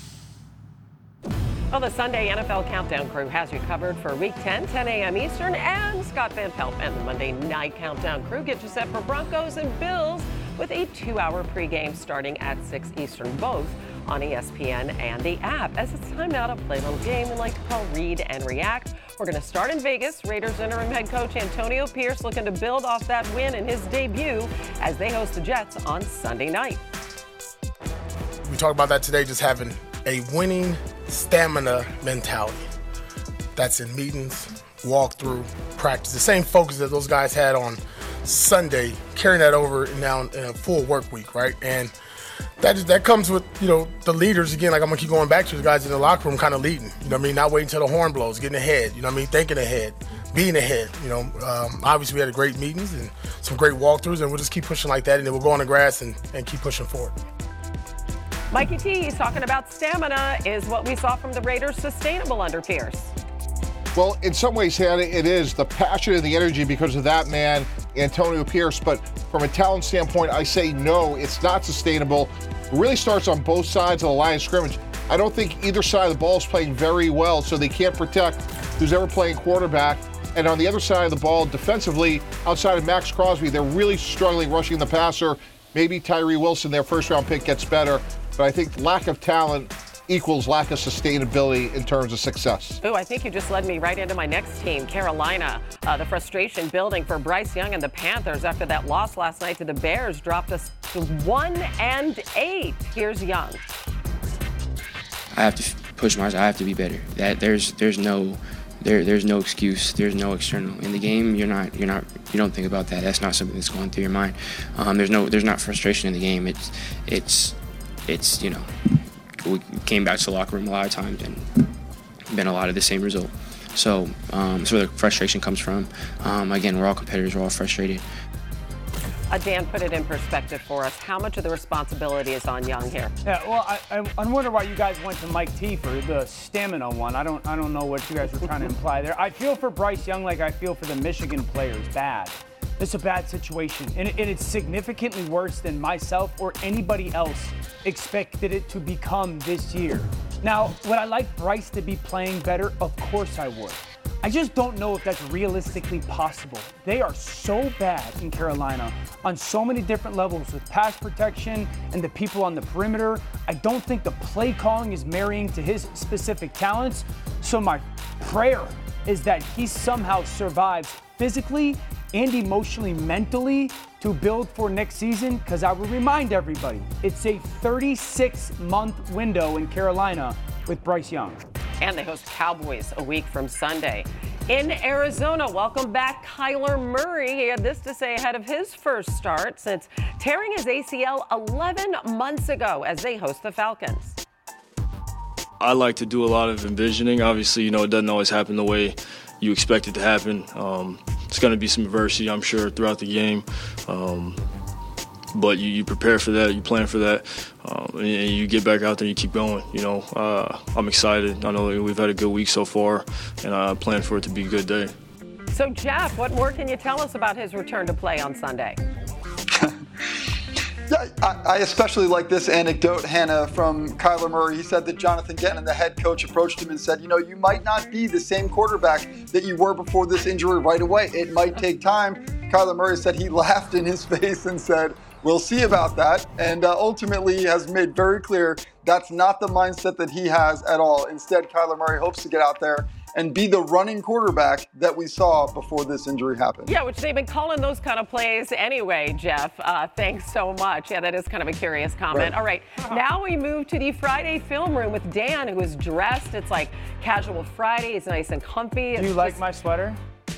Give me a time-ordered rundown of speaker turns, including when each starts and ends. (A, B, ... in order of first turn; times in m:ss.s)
0:01.7-0:26.8 A
0:28.5-0:32.6 B
0:33.6-0:41.9 B
0:42.6-0:57.1 B
0:58.5-1:03.1 A
1:03.9-1:32.8 C
1:32.8-1:43.6 A
1:45.3-1:58.9 D
1:59.4-2:01.7 D
2:02.3-2:08.0 D
2:09.3-2:13.1 A
2:13.2-3:01.4 E
3:01.8-3:14.2 A
3:15.6-3:24.4 F
3:25.3-3:34.9 F
3:35.5-3:38.8 A
3:39.5-3:39.8 G
3:40.9-4:06.7 G
4:06.6-4:19.4 A
4:18.9-4:20.0 E